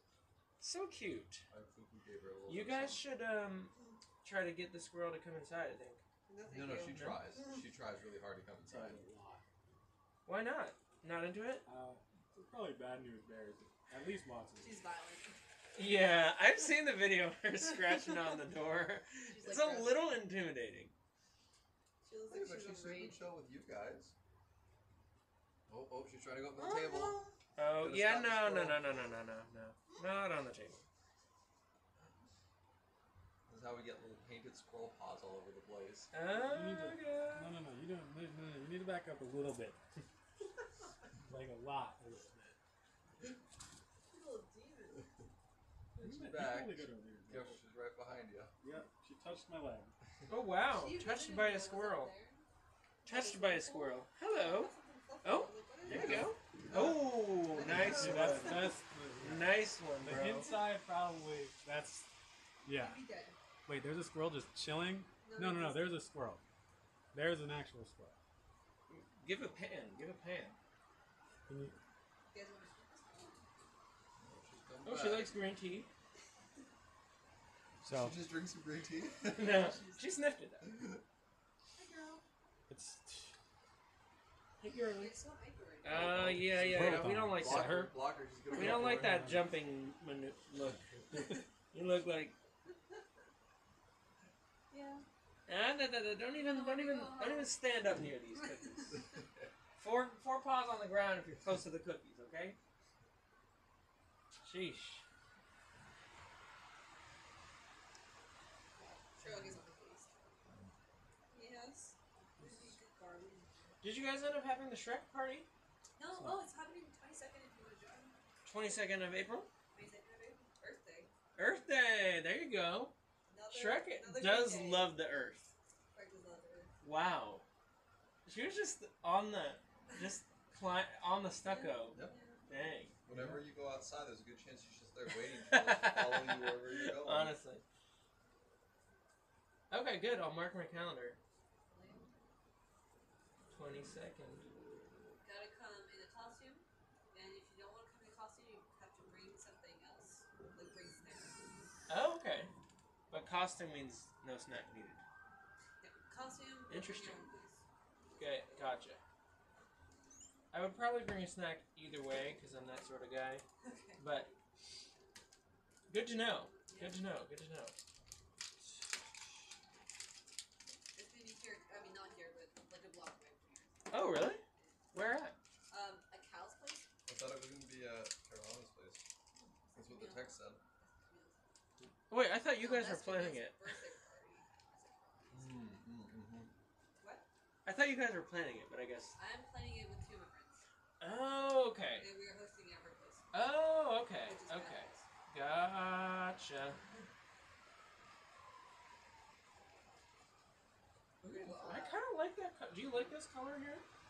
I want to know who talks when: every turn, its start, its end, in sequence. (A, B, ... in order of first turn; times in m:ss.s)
0:00.6-0:01.4 A
0:01.5-0:03.0 B
0:02.5-0:06.0 A
0:06.3-0:07.6 C
0:06.5-0:09.0 B
0:06.9-0:07.2 A
0:08.7-0:09.4 D
0:10.2-0:11.6 A
0:11.6-0:14.8 D
0:14.6-0:15.4 C
0:15.8-0:20.9 A
0:19.3-0:20.0 C
0:22.0-0:23.2 C
0:22.3-0:24.1 B
0:25.7-0:27.2 B
0:26.5-0:27.3 C
0:27.6-0:30.8 A
0:27.8-0:28.8 B
0:33.5-0:36.1 B
0:36.1-0:37.5 A
0:36.3-0:40.1 D
0:41.2-0:42.6 D
0:44.1-0:45.1 C
0:45.9-0:47.6 D
0:46.0-0:48.5 B
0:48.6-0:49.9 D
0:50.3-0:52.1 A
0:50.7-0:52.4 C
0:53.0-0:56.3 C
0:53.0-0:54.7 A
0:55.2-1:00.6 A
0:55.8-0:56.3 D
0:56.6-0:58.5 B
0:57.4-0:58.7 C
0:57.8-1:02.1 D
1:02.6-1:03.0 D
1:02.7-1:03.4 C
1:03.6-1:06.4 D
1:05.2-1:06.0 C
1:07.1-1:08.2 D
1:08.9-1:10.6 A
1:11.5-1:11.8 D
1:12.3-1:13.4 C
1:14.2-1:15.4 B
1:14.8-1:15.9 A
1:17.8-1:18.2 D
1:17.9-1:19.8 B
1:19.3-1:20.8 A
1:19.3-1:20.0 C
1:20.6-1:21.0 B
1:21.8-1:22.2 C
1:22.7-1:23.4 D
1:24.6-1:25.2 A
1:24.9-1:26.4 C
1:25.8-1:27.9 A
1:25.8-1:29.3 B
1:26.5-1:27.9 D
1:28.5-1:29.5 D
1:28.5-1:32.4 A
1:30.7-1:31.4 D
1:34.7-1:35.0 C
1:35.5-1:39.0 A
1:36.5-1:37.6 C
1:39.8-1:42.6 A
1:44.4-1:45.0 A
1:48.8-1:50.3 C
1:51.3-1:53.5 C
1:52.4-1:52.7 D
1:53.8-1:55.5 A
1:56.0-1:58.2 C
1:56.1-1:56.4 D
1:58.4-1:59.5 A
1:59.7-2:01.1 C
2:01.4-2:02.9 A
2:03.3-2:04.9 C
2:03.5-2:05.5 A
2:05.9-2:06.7 C
2:06.8-2:07.4 A
2:08.2-2:12.9 A
2:11.4-2:12.4 C
2:13.0-2:17.4 B
2:13.1-2:13.4 D
2:15.1-2:17.6 A
2:19.7-2:21.2 A
2:21.7-2:22.1 C
2:23.5-2:24.5 A
2:25.2-2:31.4 C
2:31.9-2:32.5 A
2:33.1-2:35.0 A
2:35.8-2:37.6 C
2:36.7-2:37.3 A
2:38.2-2:39.0 A
2:40.5-2:43.4 A
2:43.6-2:44.0 C
2:44.0-2:44.3 A
2:45.9-2:47.8 A
2:46.6-2:47.0 C
2:50.9-2:54.0 C
2:53.9-2:55.3 A
2:55.7-2:56.9 C
2:57.0-2:59.0 B
2:59.7-3:01.5 C
2:59.7-3:00.6 B
3:02.1-3:03.8 A
3:02.6-3:05.5 C
3:05.3-3:06.5 B
3:07.0-3:07.2 C
3:07.6-3:09.2 A
3:09.2-3:10.6 C
3:11.0-3:12.1 A
3:12.0-3:13.3 C
3:13.3-3:16.8 A
3:14.2-3:15.0 C
3:21.2-3:22.0 C
3:21.2-3:23.8 A